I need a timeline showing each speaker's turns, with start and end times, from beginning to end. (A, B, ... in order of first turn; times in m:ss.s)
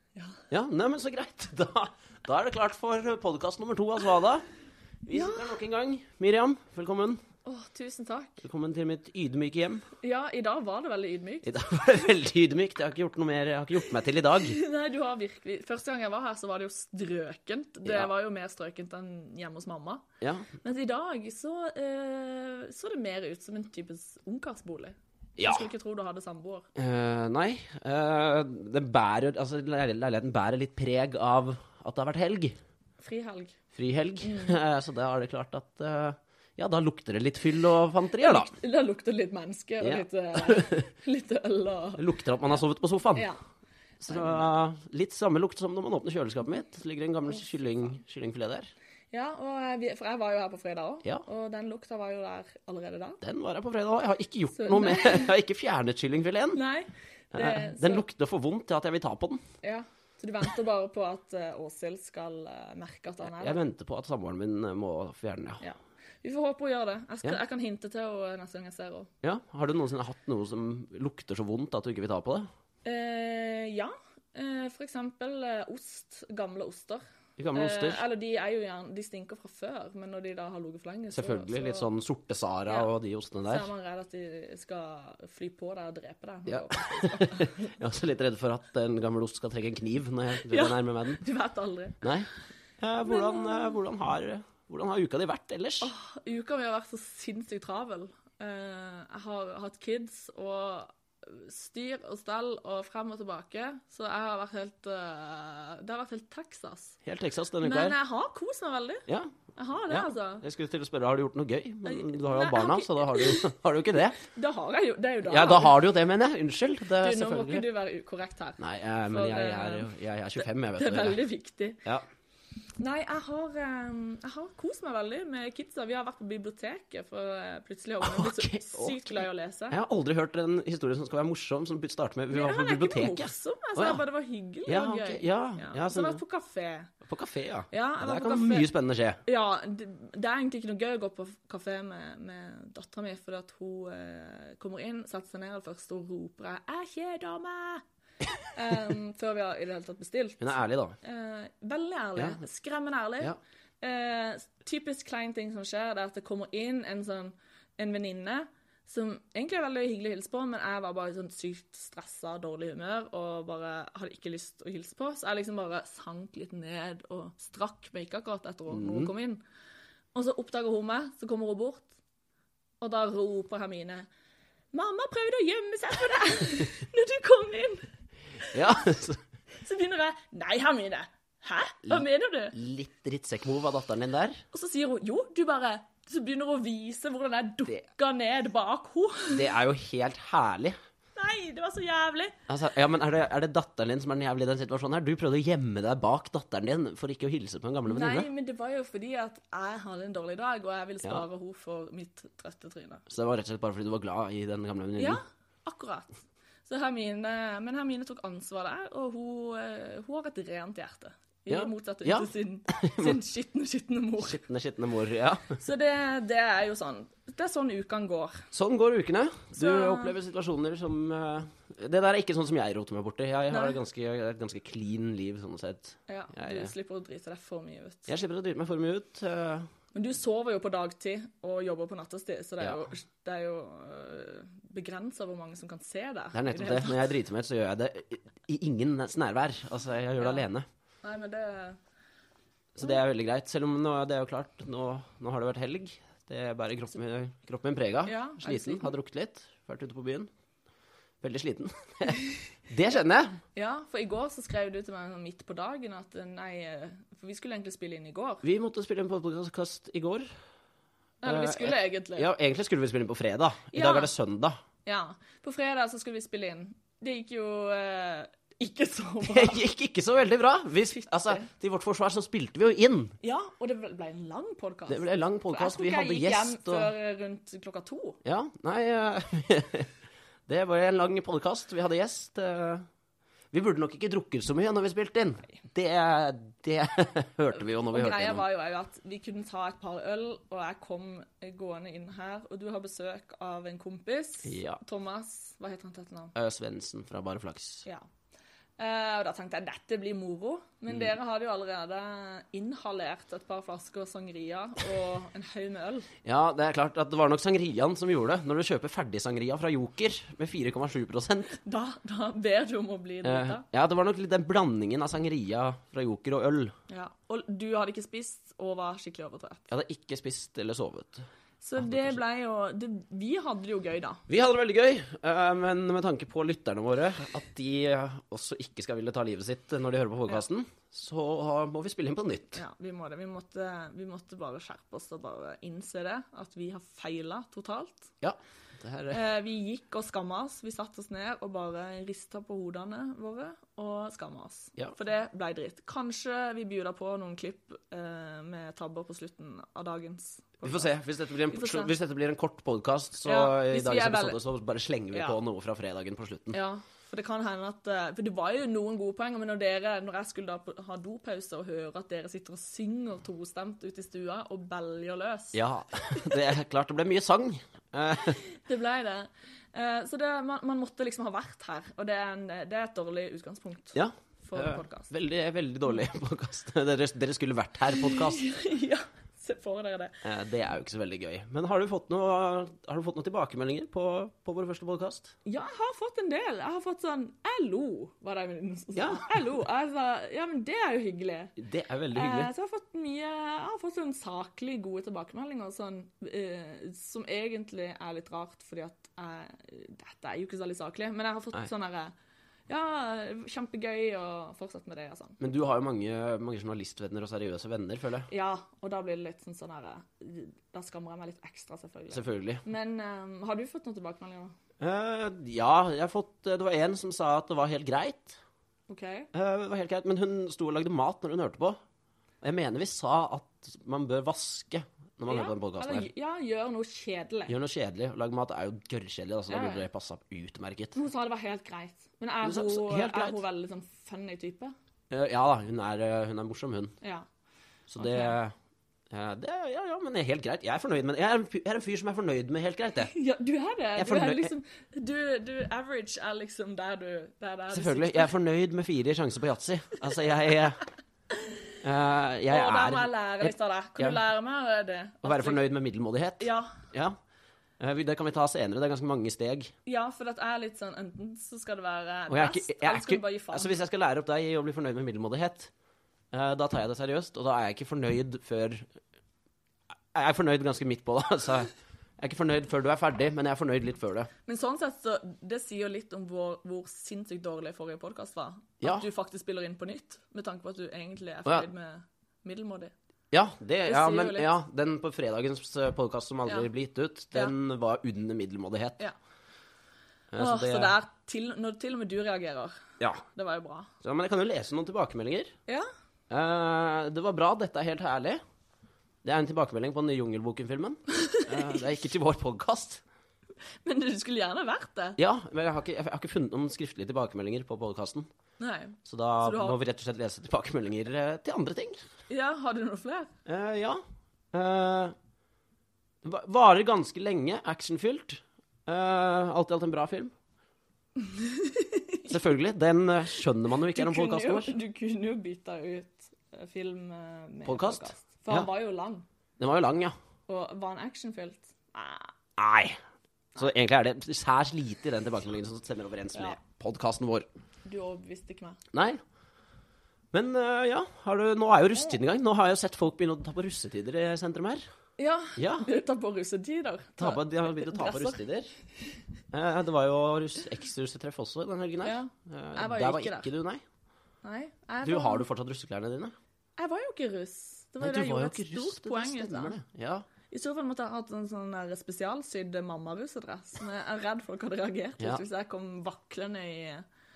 0:00.1-0:00.4 A
0:00.5-0:04.5 B
0:05.0-0:07.2 B
0:05.1-0:05.5 A
0:07.4-0:08.4 A
0:08.4-0:09.9 B
0:10.0-0:12.0 A
0:11.4-0:14.6 B
0:14.4-0:20.0 A
0:20.2-0:20.5 B
0:20.6-0:26.7 A
0:25.4-0:25.7 B
0:26.8-0:32.6 B
0:33.0-0:33.6 A
0:33.7-0:38.5 B
0:34.2-0:34.6 A
0:38.2-0:42.6 A
0:39.8-0:40.9 B
0:42.0-0:43.3 B
0:43.1-0:43.4 A
0:44.0-0:48.7 B
0:44.1-0:44.5 A
0:49.1-0:53.2 A
0:53.2-0:56.6 B
0:54.5-0:55.3 A
0:56.5-0:58.0 A
0:57.3-0:59.4 B
0:59.6-1:03.6 A
1:03.2-1:05.6 B
1:05.6-1:09.1 A
1:09.2-1:12.5 B
1:12.8-1:21.9 A
1:17.4-1:18.0 B
1:21.1-1:23.7 B
1:22.7-1:22.9 A
1:23.5-1:27.7 A
1:26.5-1:31.2 B
1:30.4-1:32.1 A
1:32.0-1:32.3 B
1:32.8-1:35.9 B
1:33.0-1:33.8 A
1:35.8-1:47.0 A
1:47.0-1:48.0 B
1:47.6-1:50.4 A
1:49.1-1:49.4 B
1:49.9-1:54.2 B
1:51.8-1:53.5 A
1:54.2-1:55.8 A
1:55.2-1:57.6 B
1:57.0-2:01.8 A
1:58.6-2:01.2 B
2:02.8-2:09.8 A
2:08.0-2:14.0 B
2:12.3-2:16.9 A
2:14.6-2:16.2 B
2:17.0-2:19.2 B
2:17.7-2:18.7 A
2:19.2-2:27.8 A
2:28.5-2:49.4 A
2:30.4-2:31.0 B
2:48.7-2:49.1 B
2:50.1-2:51.9 A
2:52.8-2:54.1 A
2:54.7-2:57.9 A
2:58.4-2:59.2 B
2:59.5-3:02.5 A
3:01.9-3:04.4 B
3:04.5-3:09.5 A
3:09.3-3:10.8 B
3:11.2-3:12.4 A
3:12.5-3:18.3 B
3:17.9-3:23.0 A
3:23.1-3:25.2 B
3:25.0-3:34.4 A
3:31.5-3:33.2 B
3:34.2-3:35.6 B
3:35.6-3:38.5 A
3:38.5-3:46.7 B
3:39.6-3:40.1 A
3:43.5-3:43.8 A
3:46.1-3:48.1 A
3:48.1-3:49.7 B
3:49.9-3:57.0 A
3:56.3-4:00.6 B
4:00.2-4:00.4 A
4:01.0-4:01.8 A
4:02.7-4:10.3 B
4:08.0-4:08.9 A
4:11.2-4:13.4 B
4:13.5-4:18.4 A
4:18.4-4:20.3 B
4:21.2-4:22.3 A
4:21.2-4:24.6 B
4:23.7-4:24.1 A
4:24.8-4:29.6 A
4:29.2-4:33.1 B
4:30.9-4:31.5 A
4:33.2-4:38.2 A
4:34.9-4:36.9 B
4:38.2-4:39.9 B
4:40.5-4:42.9 B
4:43.5-4:48.4 B
4:47.5-4:56.3 A
4:54.4-4:54.8 B
4:56.3-4:57.8 B
4:58.8-5:06.1 A
5:06.2-5:11.6 B
5:11.6-5:13.6 A
5:13.2-5:16.7 B
5:16.9-5:19.7 A
5:19.7-5:21.2 B
5:21.6-5:24.2 A
5:21.8-5:22.2 B
5:24.3-5:32.6 B
5:32.5-5:38.1 A
5:38.2-5:39.2 B
5:39.1-5:50.9 A
5:50.6-5:56.6 B
5:51.5-5:51.9 A
5:53.2-5:54.4 A
5:55.1-5:55.4 A
5:56.5-6:05.6 A
6:05.5-6:08.4 B
6:08.4-6:15.1 A
6:13.9-6:18.4 B
6:18.0-6:20.2 A
6:20.2-6:25.3 B
6:25.4-6:31.5 A
6:28.9-6:29.3 B
6:31.6-6:32.5 B
6:32.1-6:42.1 A
6:42.7-6:45.4 A
6:45.4-6:48.3 B
6:48.3-6:54.6 A
6:52.1-6:52.6 B
6:54.8-6:58.4 B
6:58.9-6:59.3 A
6:59.3-7:01.8 B
7:02.4-7:06.1 B
7:05.3-7:07.5 A
7:07.5-7:11.0 B
7:09.5-7:09.9 A
7:10.9-7:14.7 A
7:12.4-7:13.4 B
7:15.1-7:16.9 B
7:17.0-7:17.3 A
7:17.9-7:18.5 B
7:18.0-7:18.4 A
7:19.1-7:23.1 B
7:23.1-7:28.3 A
7:24.0-7:24.5 B
7:27.7-7:30.8 B
7:31.8-7:34.2 B
7:32.5-7:35.6 A
7:35.2-7:37.2 B
7:36.4-7:36.8 A
7:37.8-7:39.7 B
7:39.8-7:43.8 A
7:42.3-7:45.7 B
7:46.3-7:48.9 B
7:50.1-7:54.3 B
7:54.4-8:02.9 A
7:58.8-7:59.0 B
8:03.3-8:09.0 B
8:03.8-8:04.5 A
8:10.3-8:10.9 B
8:10.4-8:13.9 A
8:14.0-8:15.5 B
8:16.3-8:18.4 B
8:19.2-8:23.0 B
8:21.2-8:21.8 A
8:23.8-8:25.2 A
8:25.2-8:28.3 B
8:28.6-8:29.8 A
8:29.0-8:32.0 B
8:32.3-8:33.3 A
8:33.4-8:35.1 B
8:36.2-8:40.3 B
8:41.2-8:42.4 A
8:42.3-8:44.8 B
8:43.9-8:49.2 A
8:47.6-8:48.7 B
8:49.6-8:50.1 B
8:50.5-8:52.3 A
8:52.6-8:53.0 B
8:53.6-8:57.5 B
8:57.8-8:58.8 A
8:58.9-8:59.2 B
9:00.3-9:04.8 B
9:05.2-9:08.4 A
9:05.6-9:05.9 B
9:07.2-9:08.7 B
9:09.5-9:13.8 B
9:12.0-9:13.5 A
9:14.4-9:15.4 A
9:15.0-9:16.3 B
9:16.8-9:19.8 A
9:18.0-9:20.2 B
9:20.5-9:27.0 A